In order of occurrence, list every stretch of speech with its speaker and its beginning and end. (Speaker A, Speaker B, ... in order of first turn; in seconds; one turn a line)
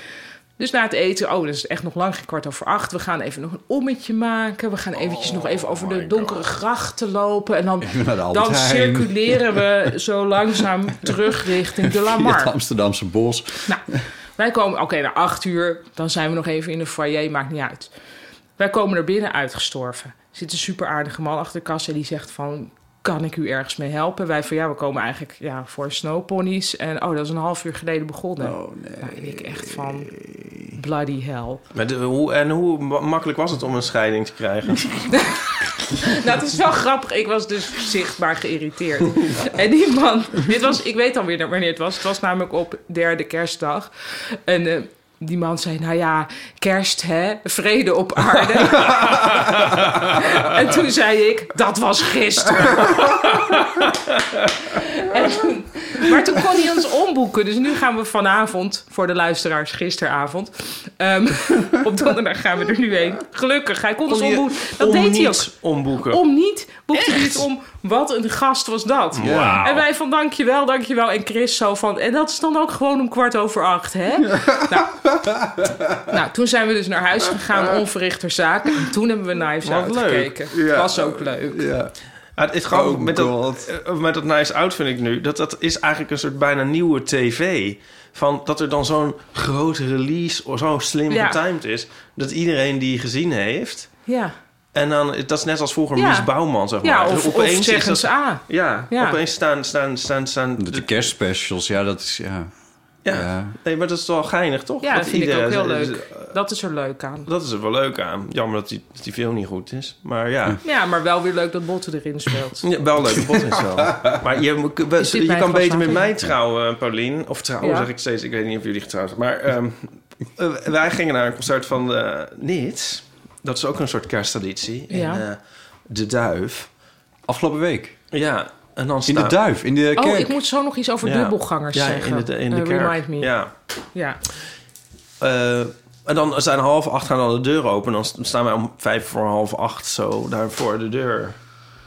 Speaker A: 0.6-12.6
Speaker B: 5.0-6.5
Speaker C: 7.8-9.7
Speaker C: 11.8-14.1
Speaker A: 14.4-17.9
Speaker A: 18.6-30.1
Speaker C: 28.4-30.8
Speaker A: 30.7-31.6
Speaker B: 31.7-35.1
Speaker A: 35.9-49.5
Speaker A: 50.1-53.5
Speaker A: 54.7-65.5
Speaker B: 64.1-66.2
Speaker A: 66.0-74.9
Speaker B: 67.0-67.4
Speaker B: 69.2-69.8
Speaker C: 69.2-69.7
Speaker C: 74.2-76.1
Speaker A: 76.1-81.7
Speaker B: 79.6-80.6
Speaker C: 80.5-81.9
Speaker B: 82.4-94.0
Speaker C: 82.7-83.7
Speaker A: 91.1-91.4
Speaker A: 94.1-94.3
Speaker B: 94.7-101.1
Speaker A: 96.0-99.2
Speaker C: 100.6-102.5
Speaker B: 103.0-106.3
Speaker C: 103.1-103.6
Speaker A: 104.8-107.3
Speaker B: 107.3-110.6
Speaker A: 110.6-112.7
Speaker B: 112.6-126.7
Speaker C: 113.8-114.1
Speaker A: 115.0-116.0
Speaker A: 117.6-117.9
Speaker A: 124.9-125.2
Speaker C: 127.3-128.0
Speaker B: 128.1-129.4
Speaker C: 129.1-130.4
Speaker A: 130.0-133.3
Speaker B: 131.0-133.5
Speaker A: 133.9-134.2
Speaker B: 135.2-141.4